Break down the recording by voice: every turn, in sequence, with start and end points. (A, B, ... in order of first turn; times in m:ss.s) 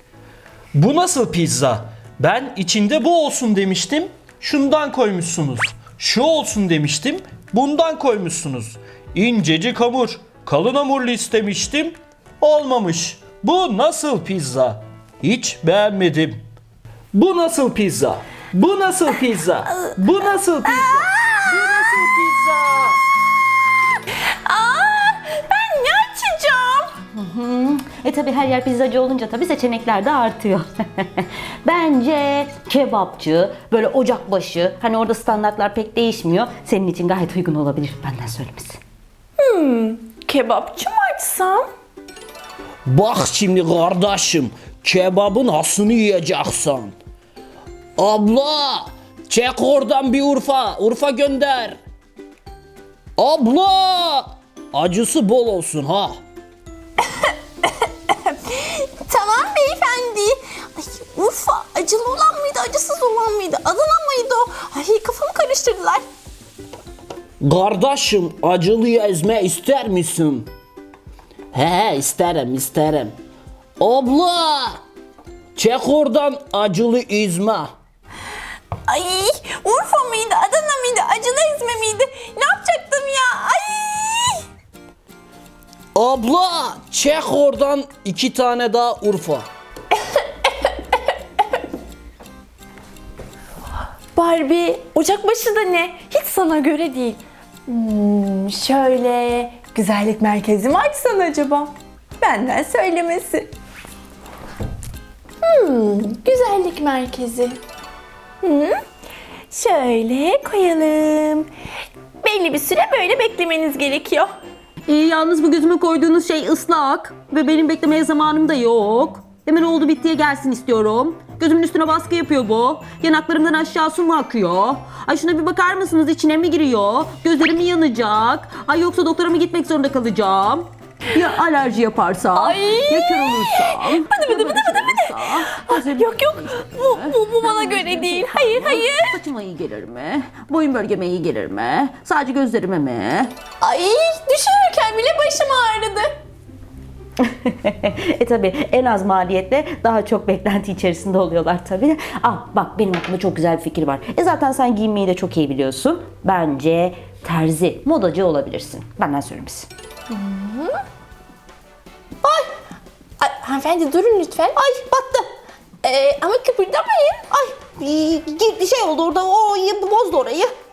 0:00.8-0:16.3 A
0:17.1-0:19.7 A
0:18.8-0:19.0 B
0:20.2-0:20.7 B
0:20.2-0:21.8 A
0:20.7-0:21.4 C
0:21.9-0:22.7 B
0:22.6-0:22.9 A
0:24.4-0:27.0 C
0:27.2-0:38.8 D
0:39.4-0:41.7 C
0:42.9-0:47.0 B
0:48.0-0:51.8 B
0:53.2-0:56.2 B
0:58.1-1:06.0 C
1:07.4-1:10.5 B
1:11.5-1:13.2 B
1:13.8-1:14.8 B
1:15.6-1:17.7 B
1:18.9-1:24.4 C
1:25.9-1:29.5 B
1:34.1-1:43.5 C
1:45.4-1:47.6 C
1:48.4-1:48.8 C
1:49.5-1:51.5 C
1:52.2-1:54.3 C
1:54.9-2:23.3 D
2:12.3-2:19.2 C
2:23.6-2:26.1 C
2:27.2-2:39.7 D
2:40.1-2:40.8 C
2:42.2-2:42.5 D
2:43.2-2:44.6 C
2:44.6-2:45.3 D
2:45.8-2:47.2 C
2:47.3-2:50.5 D